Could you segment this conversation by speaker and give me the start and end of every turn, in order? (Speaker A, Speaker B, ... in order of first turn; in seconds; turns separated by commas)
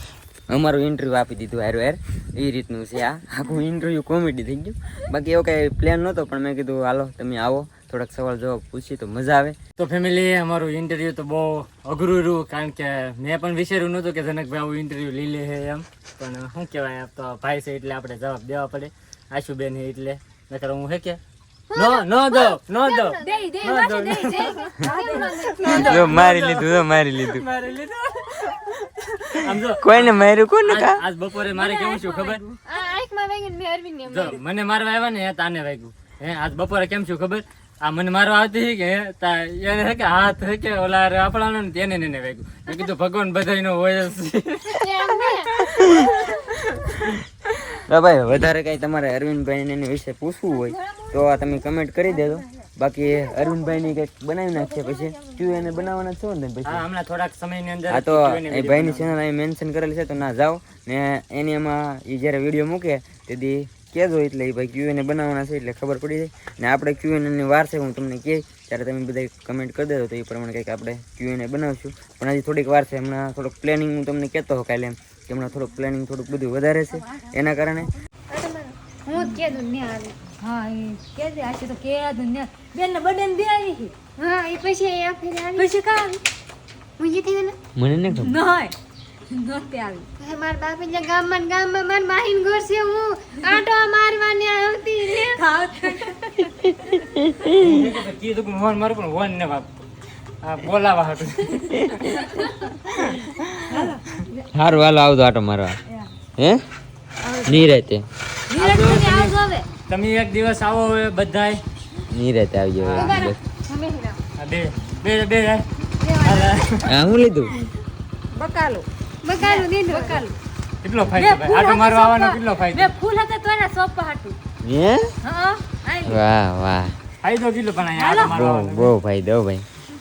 Speaker A: 0.5-9.6, Speaker B: 9.8-21.2, Speaker C: 21.7-26.2, Speaker B: 21.7-32.4, Speaker D: 23.2-25.9, Speaker A: 25.7-27.4, Speaker A: 29.8-31.0, Speaker D: 31.5-32.6, Speaker C: 32.6-34.4, Speaker B: 34.1-44.8, Speaker C: 44.8-45.6, Speaker A: 45.6-46.2, Speaker A: 46.7-47.2, Speaker A: 47.7-56.8, Speaker C: 50.5-51.6, Speaker C: 53.0-53.6, Speaker B: 56.6-59.1, Speaker A: 57.9-77.9, Speaker C: 78.3-80.1, Speaker D: 80.4-83.9, Speaker C: 84.2-85.7, Speaker D: 85.6-86.2, Speaker C: 87.0-87.5, Speaker A: 87.7-88.4, Speaker D: 88.1-88.7, Speaker D: 89.3-90.1, Speaker C: 90.2-95.4, Speaker D: 95.2-97.1, Speaker A: 96.8-97.8, Speaker B: 97.6-99.8, Speaker B: 100.4-102.1, Speaker D: 102.2-102.7, Speaker B: 102.9-104.0, Speaker D: 103.7-104.5, Speaker A: 104.5-105.8, Speaker A: 106.4-106.6, Speaker D: 107.2-107.7, Speaker A: 107.4-108.0, Speaker D: 108.5-109.7, Speaker B: 108.5-109.4, Speaker B: 109.9-111.6, Speaker A: 112.1-113.4, Speaker B: 112.8-113.2, Speaker C: 112.9-114.2, Speaker B: 114.4-115.7, Speaker C: 116.0-116.8, Speaker B: 116.2-116.9, Speaker A: 116.8-117.5, Speaker D: 118.3-118.8, Speaker C: 119.2-120.2, Speaker D: 119.4-120.4, Speaker B: 120.8-122.9, Speaker D: 121.1-124.4, Speaker A: 124.6-125.2, Speaker D: 125.2-126.2, Speaker A: 126.0-127.0, Speaker B: 127.2-128.9, Speaker D: 127.9-128.3, Speaker A: 128.2-129.6